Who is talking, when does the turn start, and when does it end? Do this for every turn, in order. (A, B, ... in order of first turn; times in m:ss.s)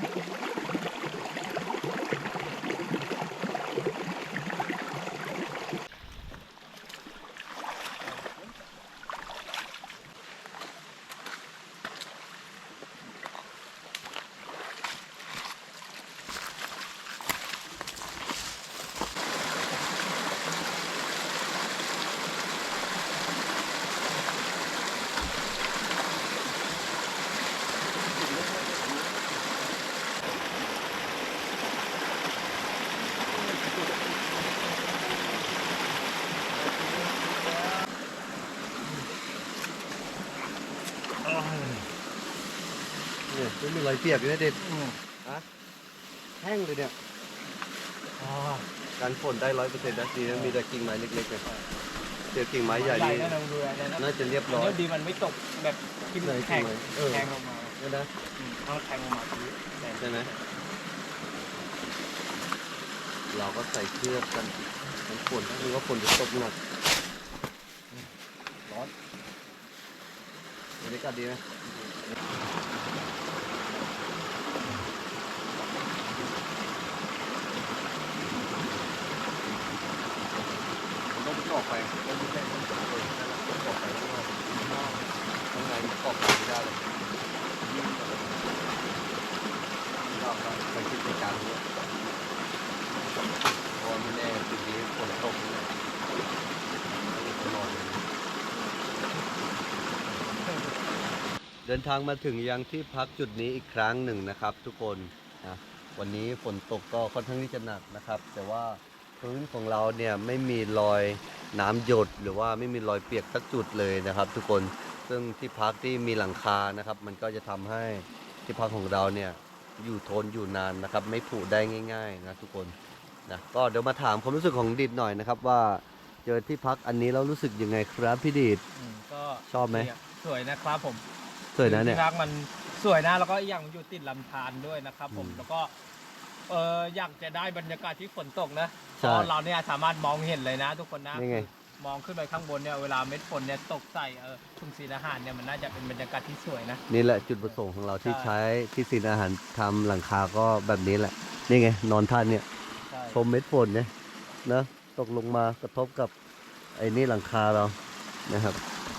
0:08.1-0:08.5 A
0:36.5-0:37.8 A
0:41.3-0:41.8 A
0:43.3-0:44.6 B
0:44.6-0:45.0 A
0:46.4-0:47.0 B
0:48.2-0:48.7 A
0:49.0-0:51.4 B
0:50.3-0:50.6 A
0:52.3-0:53.3 B
0:52.7-0:57.8 A
0:54.0-0:54.8 B
0:56.2-0:57.3 B
0:57.8-0:58.1 B
0:58.4-1:00.4 A
1:00.0-1:00.3 B
1:03.3-1:04.6 B
1:05.1-1:06.6 B
1:08.7-1:08.9 B
1:10.8-1:12.1 B
1:21.1-1:26.8 B
1:27.6-1:28.7 B
1:30.1-1:31.6 B
1:33.8-1:35.7 B
1:37.1-1:38.0 B
1:41.6-2:02.8 B
2:03.3-2:08.6 B
2:08.7-2:11.0 A
2:09.5-2:09.9 B
2:11.6-2:12.0 B
2:11.6-2:15.7 A
2:15.1-2:15.4 B
2:16.5-2:26.8 A
2:19.0-2:19.3 B
2:21.1-2:21.5 B
2:26.9-2:32.4 B
2:27.5-2:28.3 A
2:32.9-2:33.2 A
2:33.1-2:33.9 B
2:34.4-2:36.1 B
2:36.8-2:37.8 B
2:38.3-2:38.6 B